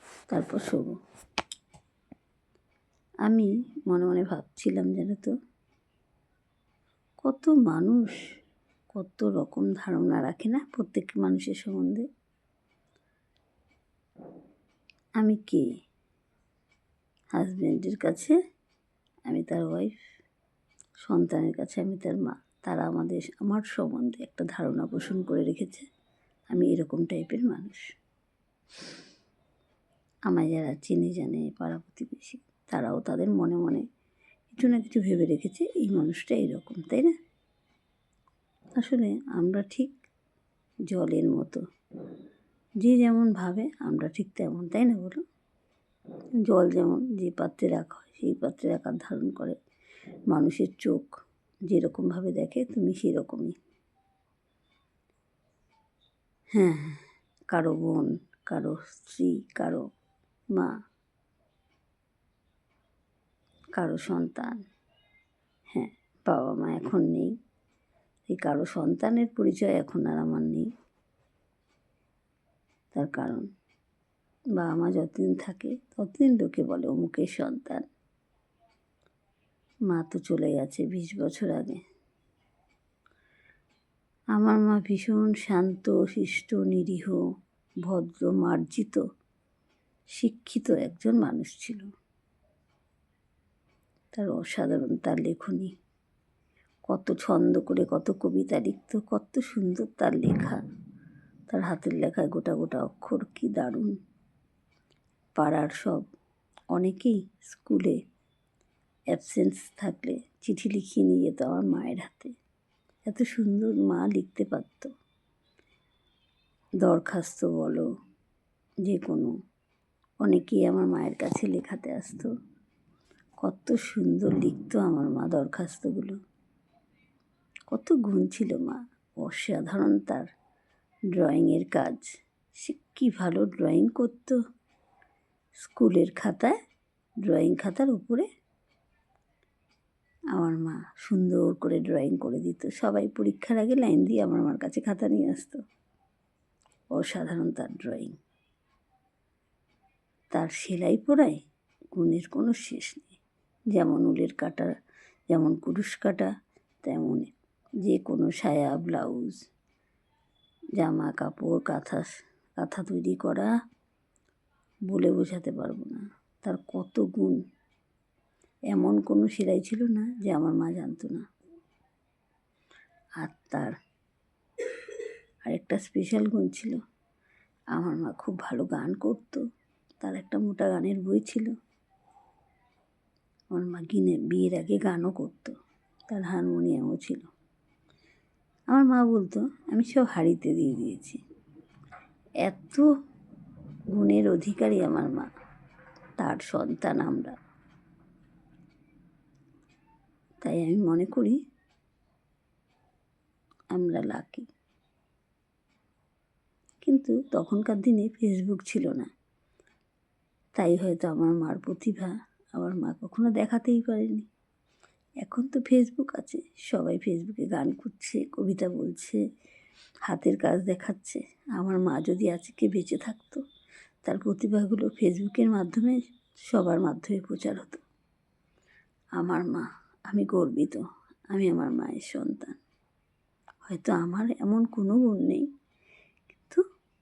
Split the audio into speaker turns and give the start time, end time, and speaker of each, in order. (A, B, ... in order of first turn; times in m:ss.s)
0:00.3-0:01.0 A
0:03.2-0:05.3 A
0:07.2-0:08.2 A
0:08.9-0:12.1 A
0:15.2-0:15.6 A
0:17.4-0:18.4 A
0:19.3-0:20.0 A
0:21.1-0:25.9 A
0:26.5-0:27.8 A
0:30.3-0:33.8 A
0:34.5-0:37.1 A
0:38.8-0:40.0 A
0:40.9-0:41.6 A
0:42.8-0:45.2 A
0:46.5-0:49.6 A
0:50.3-0:51.2 A
0:51.7-0:53.6 A
0:56.5-0:59.8 A
1:03.8-1:04.6 A
1:05.7-1:07.3 A
1:08.3-1:10.7 A
1:12.9-1:13.5 A
1:14.6-1:17.8 A
1:19.9-1:21.8 A
1:24.3-1:27.2 A
1:27.8-1:29.0 A
1:30.2-1:31.9 A
1:34.1-1:35.7 A
1:36.9-1:40.6 A
1:41.5-1:43.9 A
1:45.4-1:46.1 A
1:46.7-1:48.0 A
1:49.1-1:52.3 A
1:53.1-1:54.9 A
1:56.8-1:57.9 A
1:58.9-1:59.3 A
2:00.2-2:02.3 A
2:03.4-2:06.2 A
2:07.7-2:10.3 A
2:11.1-2:12.1 A
2:12.6-2:14.4 A
2:15.6-2:16.6 A
2:17.3-2:18.3 A
2:20.4-2:25.6 A
2:26.9-2:28.2 A
2:30.3-2:31.4 A
2:31.9-2:33.2 A
2:33.7-2:34.8 A
2:35.3-2:36.3 A
2:36.8-2:37.3 A
2:37.8-2:39.4 A
2:40.8-2:43.5 A
2:44.9-2:47.4 A
2:48.7-2:51.2 A
2:53.2-2:53.8 A
2:55.4-2:56.8 A
2:57.7-2:59.4 A
3:00.0-3:01.5 A
3:03.5-3:05.5 A
3:06.1-3:07.3 A
3:08.7-3:11.2 A
3:12.4-3:12.9 A
3:14.0-3:15.3 A
3:16.2-3:17.3 A
3:20.4-3:21.4 A
3:23.7-3:24.5 A
3:26.8-3:29.1 A
3:30.6-3:34.3 A
3:35.2-3:39.2 A
3:40.1-3:43.4 A
3:44.0-3:46.0 A
3:46.5-3:47.8 A
3:49.2-3:52.6 A
3:53.6-3:55.5 A